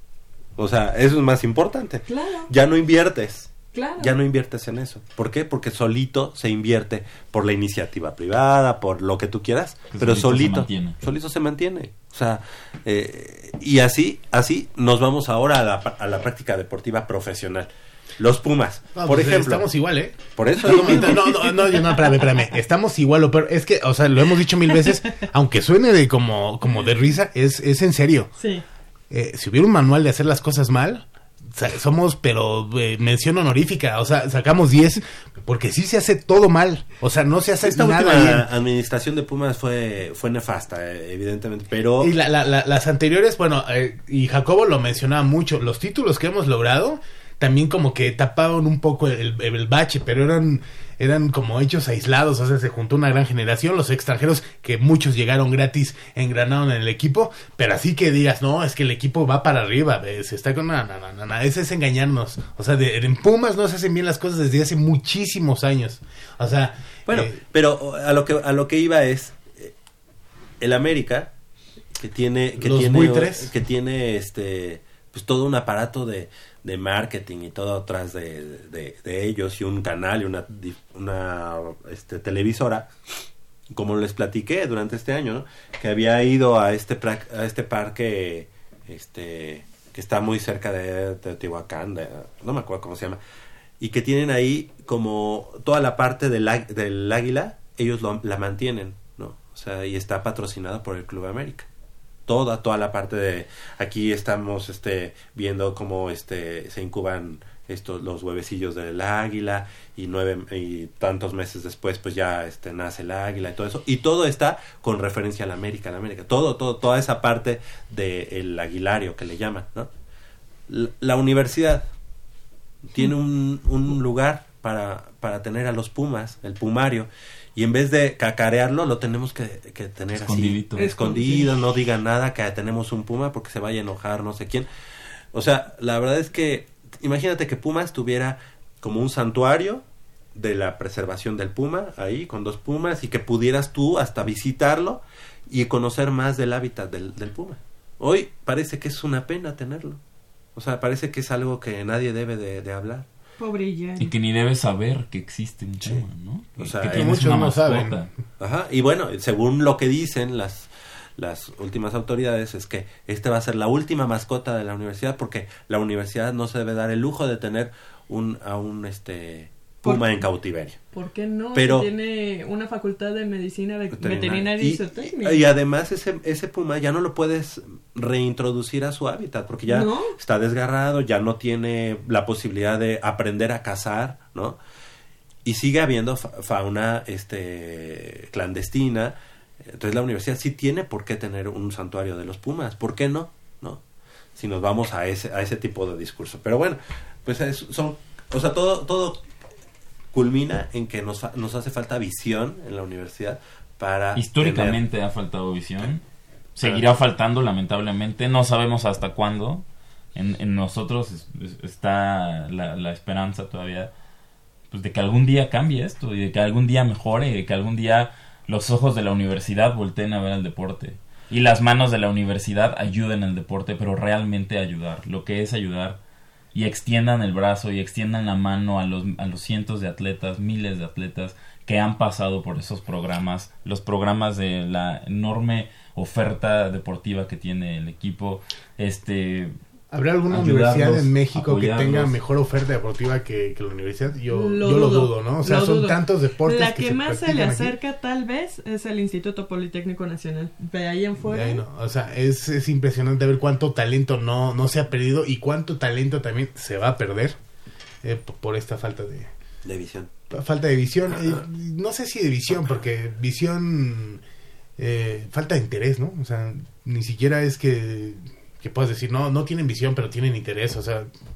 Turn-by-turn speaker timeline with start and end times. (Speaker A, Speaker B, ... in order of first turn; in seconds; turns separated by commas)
Speaker A: 0.6-19.7, Speaker B: 2.1-2.5, Speaker B: 3.7-4.1, Speaker C: 9.9-11.0, Speaker D: 18.9-28.3, Speaker A: 20.4-21.3, Speaker B: 20.8-21.2, Speaker B: 28.4-28.6, Speaker D: 29.1-38.5, Speaker A: 37.6-42.1, Speaker D: 42.0-67.4, Speaker A: 67.1-69.7, Speaker A: 70.6-71.3, Speaker A: 72.0-82.9, Speaker D: 72.6-73.5, Speaker A: 83.7-93.2, Speaker A: 93.8-101.7, Speaker A: 102.3-119.9, Speaker A: 120.7-121.9, Speaker A: 122.9-134.7, Speaker C: 130.1-130.9, Speaker B: 130.8-131.5, Speaker A: 135.3-139.8, Speaker A: 140.3-150.0, Speaker A: 150.6-153.0, Speaker B: 153.4-154.1, Speaker C: 154.0-158.1, Speaker A: 156.6-157.2, Speaker D: 156.9-158.0, Speaker A: 158.4-170.8, Speaker B: 170.9-175.4, Speaker A: 171.5-171.9, Speaker A: 173.9-184.6, Speaker B: 179.7-180.1, Speaker A: 185.4-189.1, Speaker A: 189.7-193.8, Speaker A: 194.3-199.2, Speaker A: 200.1-204.8, Speaker C: 204.2-206.0, Speaker C: 206.6-209.6, Speaker C: 210.1-213.9, Speaker C: 214.7-226.0, Speaker C: 226.5-239.5, Speaker D: 239.9-247.7, Speaker C: 240.3-242.1, Speaker B: 244.3-251.6, Speaker D: 251.2-257.4, Speaker D: 258.0-259.3, Speaker A: 259.6-260.1, Speaker D: 260.3-264.2, Speaker D: 264.8-271.1